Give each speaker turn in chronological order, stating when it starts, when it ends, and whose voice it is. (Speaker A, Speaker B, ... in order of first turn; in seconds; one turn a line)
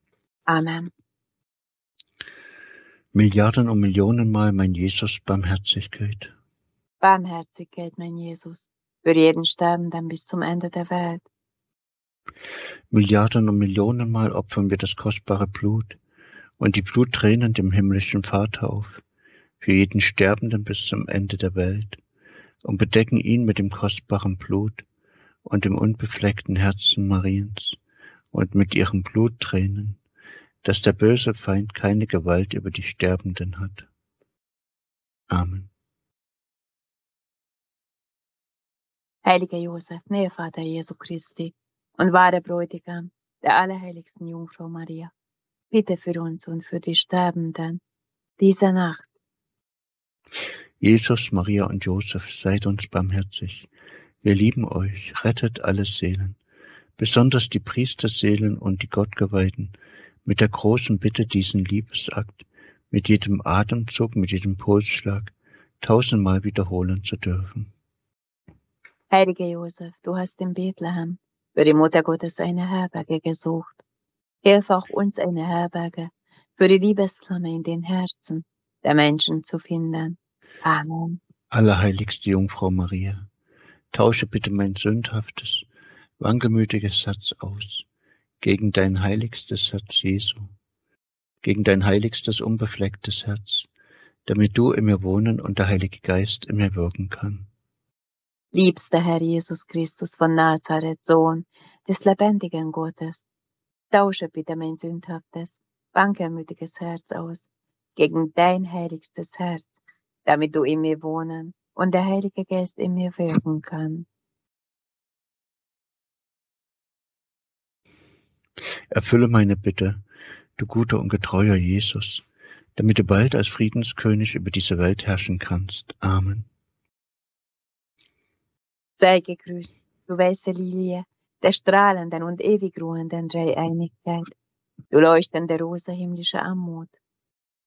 Speaker A: 0.5-0.9
Speaker B: 3.1-6.3
Speaker A: 7.0-11.2
Speaker B: 12.9-16.0
Speaker B: 16.6-19.0
Speaker B: 19.6-22.0
Speaker B: 22.6-24.8
Speaker B: 25.4-27.8
Speaker B: 28.3-30.0
Speaker B: 30.6-33.9
Speaker B: 35.3-35.7
Speaker A: 39.2-45.1
Speaker A: 45.7-47.8
Speaker A: 48.4-49.1
Speaker B: 50.8-53.7
Speaker B: 54.2-56.4
Speaker B: 57.0-59.7
Speaker B: 60.2-67.7
Speaker A: 69.1-73.8
Speaker A: 74.4-81.2
Speaker B: 81.5-83.2
Speaker B: 83.9-85.7
Speaker B: 86.2-87.8
Speaker B: 88.4-90.5
Speaker B: 91.4-93.7
Speaker B: 94.2-97.5
Speaker A: 98.5-103.2
Speaker A: 103.9-109.7
Speaker A: 110.2-114.0
Speaker B: 118.9-120.0
Speaker B: 120.6-122.2
Speaker B: 122.8-126.5
Speaker A: 129.0-134.3
Speaker A: 134.9-137.0